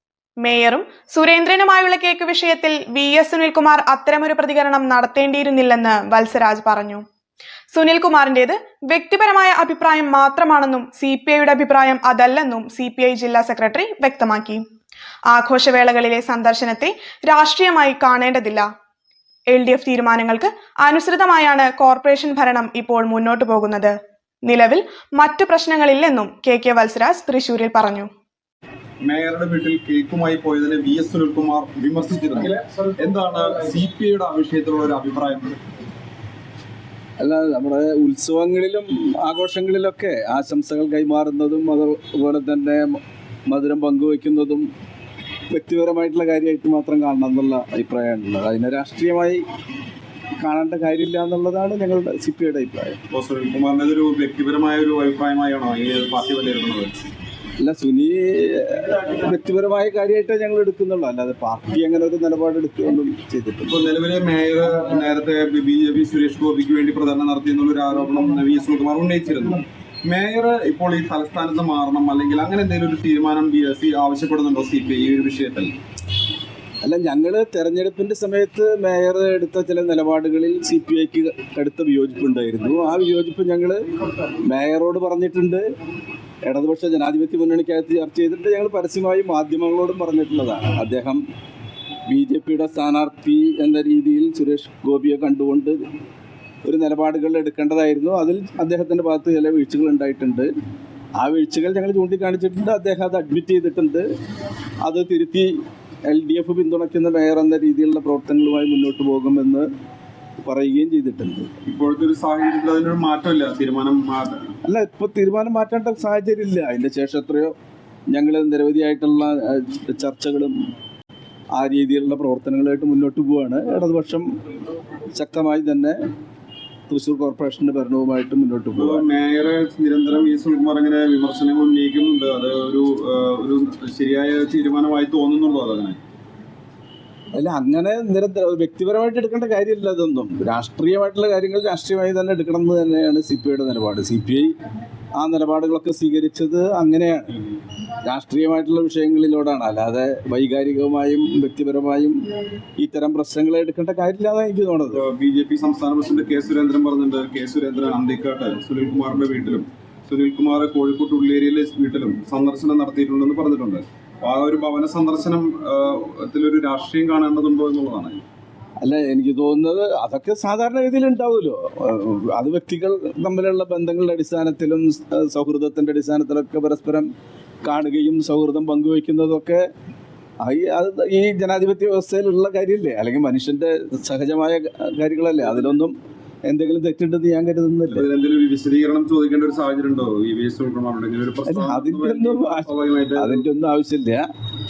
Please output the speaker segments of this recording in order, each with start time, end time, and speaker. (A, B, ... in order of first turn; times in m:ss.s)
0:00.4-0:07.0 A
0:07.7-0:14.6 A
0:15.3-0:18.7 A
0:19.5-0:28.1 A
0:29.0-0:35.6 B
0:37.2-0:44.7 C
0:45.5-0:49.4 C
0:50.4-0:53.0 C
0:53.1-0:56.9 B
0:57.6-1:03.8 C
1:03.6-1:15.8 B
1:16.8-1:23.8 C
1:24.4-1:25.6 C
1:26.4-1:31.2 C
1:32.0-1:35.8 C
1:36.6-1:40.5 C
1:41.2-1:44.0 C
1:44.8-1:45.5 C
1:46.0-1:49.7 C
1:50.4-1:51.5 C
1:51.6-1:54.5 B
1:54.6-1:57.5 C
1:58.1-2:00.5 C
2:01.5-2:04.3 C
2:05.1-2:06.0 C
2:06.9-2:09.0 C
2:08.8-2:16.0 B
2:17.3-2:24.5 C
2:25.2-2:27.3 C
2:28.0-2:32.2 C
2:32.8-2:35.0 C
2:34.9-2:48.2 B
2:48.8-2:57.1 C
2:57.6-2:59.6 C
3:00.4-3:05.9 C
3:06.4-3:08.0 C
3:07.9-3:13.4 B
3:11.5-3:14.2 C